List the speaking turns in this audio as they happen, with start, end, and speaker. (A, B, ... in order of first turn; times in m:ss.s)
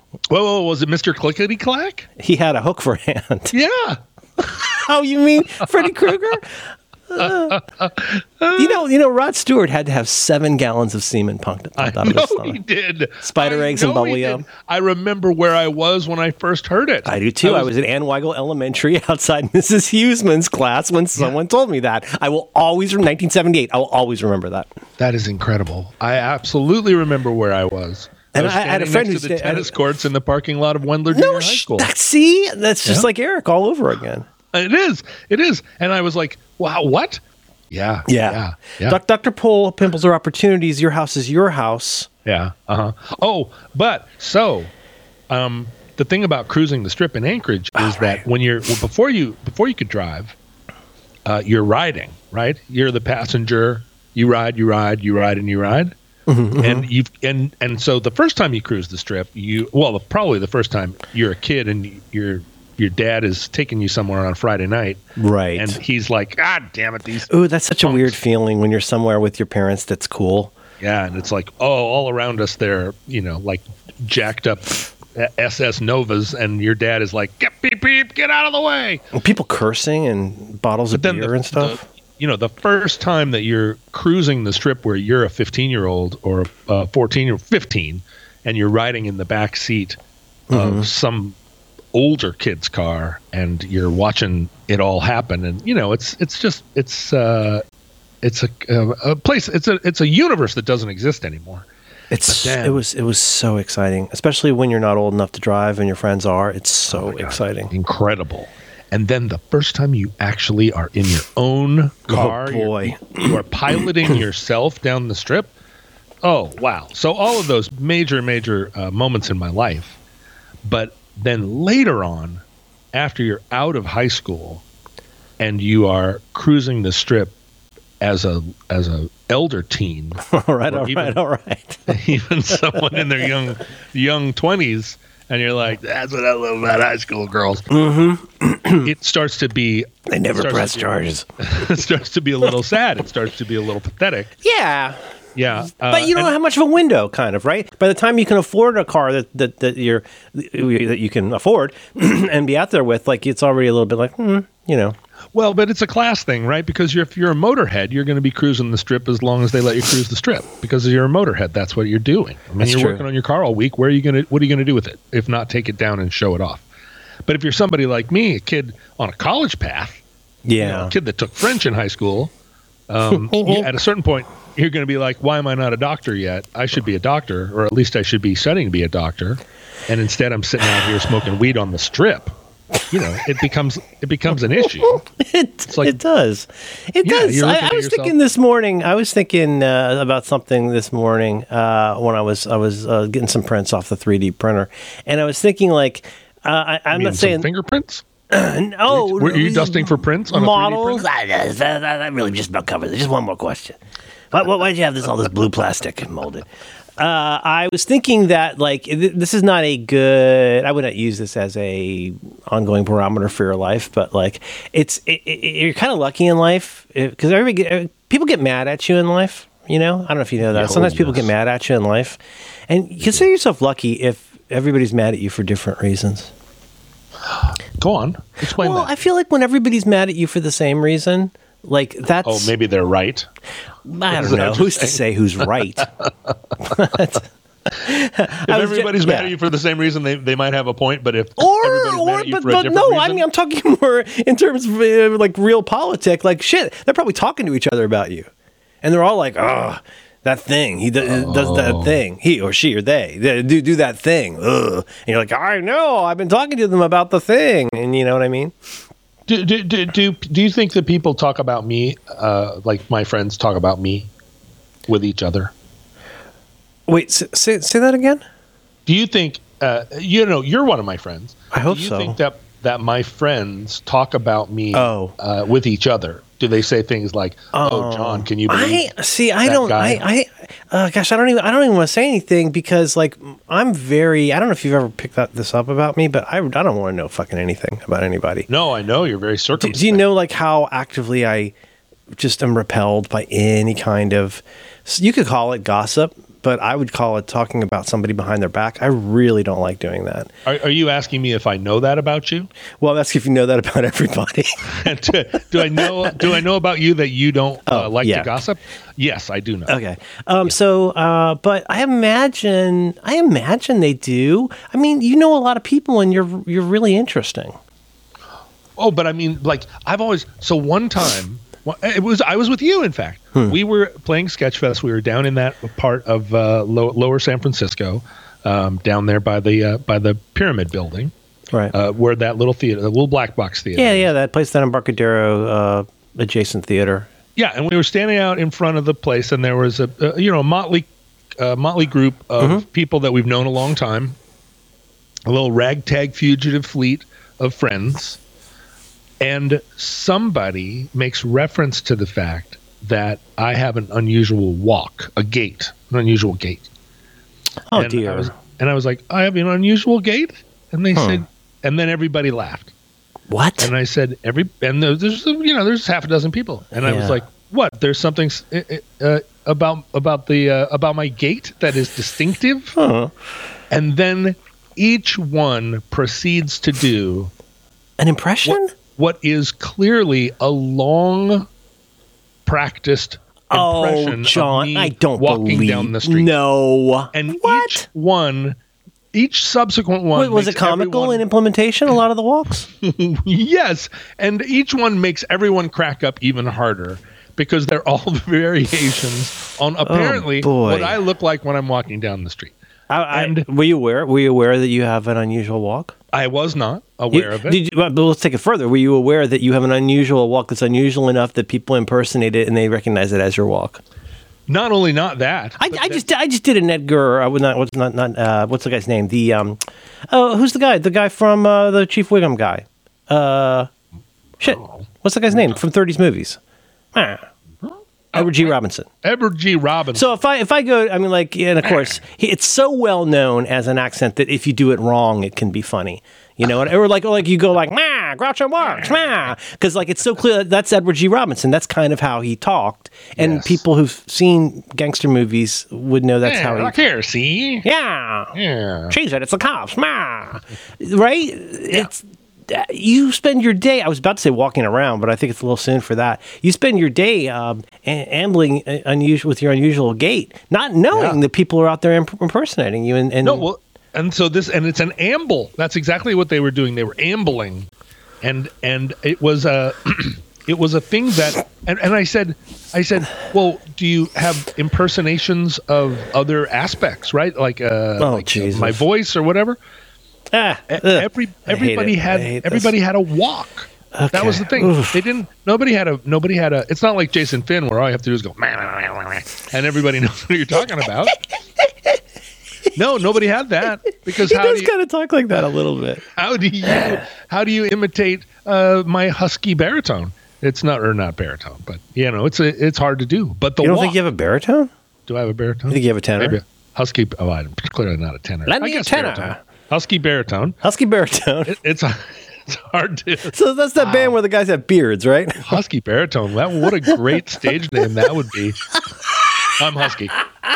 0:00.3-0:02.1 A
0:02.2-0:03.5 B
0:03.5-0:04.5 A
0:04.5-0:07.6 B
0:07.2-0:08.8 A
0:08.5-0:12.6 B
0:11.8-0:17.7 A
0:13.2-0:14.4 B
0:17.0-0:24.7 B
0:25.0-0:31.9 A
0:28.3-0:29.8 B
0:31.1-0:34.3 B
0:34.5-0:39.0 A
0:38.1-0:42.1 B
0:42.2-0:44.7 A
0:45.3-0:50.4 A
0:51.2-0:55.9 A
0:56.3-0:56.9 B
0:56.6-1:05.0 A
1:05.2-1:05.8 B
1:05.5-1:07.3 A
1:07.3-1:10.5 B
1:07.8-1:08.2 A
1:10.8-1:19.0 A
1:19.1-1:21.8 B
1:20.9-1:30.0 A
1:30.5-1:30.9 B
1:30.5-1:31.4 A
1:31.9-1:37.6 A
1:38.2-1:41.6 A
1:42.1-1:47.7 B
1:42.3-1:42.8 A
1:46.9-1:55.5 A
1:52.1-1:53.4 B
1:56.2-2:00.0 A
2:00.6-2:04.6 A
2:05.4-2:07.3 A
2:08.0-2:11.2 A
2:10.2-2:12.0 B
2:11.9-2:17.7 A
2:17.7-2:18.9 B
2:18.8-2:24.3 A
2:20.1-2:21.2 B
2:24.4-2:25.0 B
2:25.3-2:26.3 A
2:25.8-2:35.0 B
2:35.3-2:46.6 A
2:42.6-2:43.0 B
2:47.2-2:50.0 A
2:50.4-2:50.9 B
2:50.6-2:52.3 A
2:52.9-3:02.3 A
2:53.2-2:53.7 B
3:02.9-3:05.0 A
3:04.9-3:17.5 B
3:05.7-3:06.0 A
3:07.0-3:08.1 A
3:16.9-3:18.0 A
3:18.3-3:23.8 B
3:18.9-3:21.0 A
3:24.3-3:26.4 B
3:27.0-3:46.3 B
3:40.5-3:41.3 A
3:47.2-3:48.9 A
3:48.4-3:52.5 B
3:52.2-3:53.3 A
3:53.8-3:55.9 B
3:54.1-3:55.0 A
3:55.8-3:56.3 A
3:56.6-3:59.3 B
3:58.4-4:03.2 A
4:01.4-4:08.3 B
4:08.8-4:18.5 B
4:11.0-4:12.0 A
4:19.3-4:24.1 A
4:24.9-4:25.5 A
4:26.9-4:28.2 B
4:28.8-4:38.9 A
4:31.5-4:32.2 B
4:34.7-4:35.1 B
4:37.5-4:48.5 B
4:39.4-4:40.0 A
4:48.5-4:50.0 A
4:49.6-4:51.5 B
4:52.1-5:00.3 B
5:00.4-5:02.5 A
5:02.8-5:04.8 B
5:04.6-5:09.8 A
5:05.7-5:06.2 B
5:07.7-5:08.4 B
5:09.7-5:17.6 B
5:18.8-5:31.1 A
5:31.7-5:34.1 A
5:33.8-5:37.1 B
5:37.4-5:44.2 A
5:45.2-5:48.2 A
5:49.2-5:56.7 A
5:57.7-5:58.3 B
5:57.7-6:02.7 A
6:00.9-6:01.2 B
6:03.3-6:03.7 B
6:03.6-6:12.8 A
6:06.8-6:07.2 B
6:12.8-6:13.1 B
6:13.7-6:17.3 A
6:18.0-6:18.7 B
6:18.4-6:21.5 A
6:22.4-6:26.3 A
6:23.5-6:27.8 B
6:27.1-6:28.6 A
6:29.1-6:31.2 A
6:30.1-6:32.7 B
6:32.8-6:42.5 A
6:39.8-6:41.0 B
6:42.9-6:45.9 B
6:43.1-6:43.4 A
6:46.1-6:47.6 A
6:47.1-6:53.8 B
6:54.5-6:56.0 A
6:55.6-7:03.7 B
7:04.4-7:06.4 B
7:04.5-7:05.6 A
7:06.9-7:07.3 B
7:07.6-7:10.1 A
7:08.1-7:08.9 B
7:09.9-7:26.7 B
7:23.2-7:23.6 A
7:26.2-7:27.6 A
7:27.6-7:28.4 B
7:28.3-7:29.0 A
7:28.9-7:43.5 B
7:40.9-7:41.2 A
7:43.2-7:47.7 A
7:48.2-7:59.6 A
7:58.0-7:58.8 B
8:00.3-8:02.7 B
8:00.7-8:11.2 A
8:03.9-8:05.0 B
8:12.7-8:14.7 A
8:14.1-8:16.0 B
8:16.1-8:24.0 A
8:23.6-8:24.7 B
8:25.1-8:30.6 A
8:25.7-8:26.4 B
8:28.5-8:29.4 B
8:30.6-8:31.5 B
8:31.4-8:34.1 A
8:33.3-8:35.6 B
8:35.4-8:38.7 A
8:39.5-8:40.2 A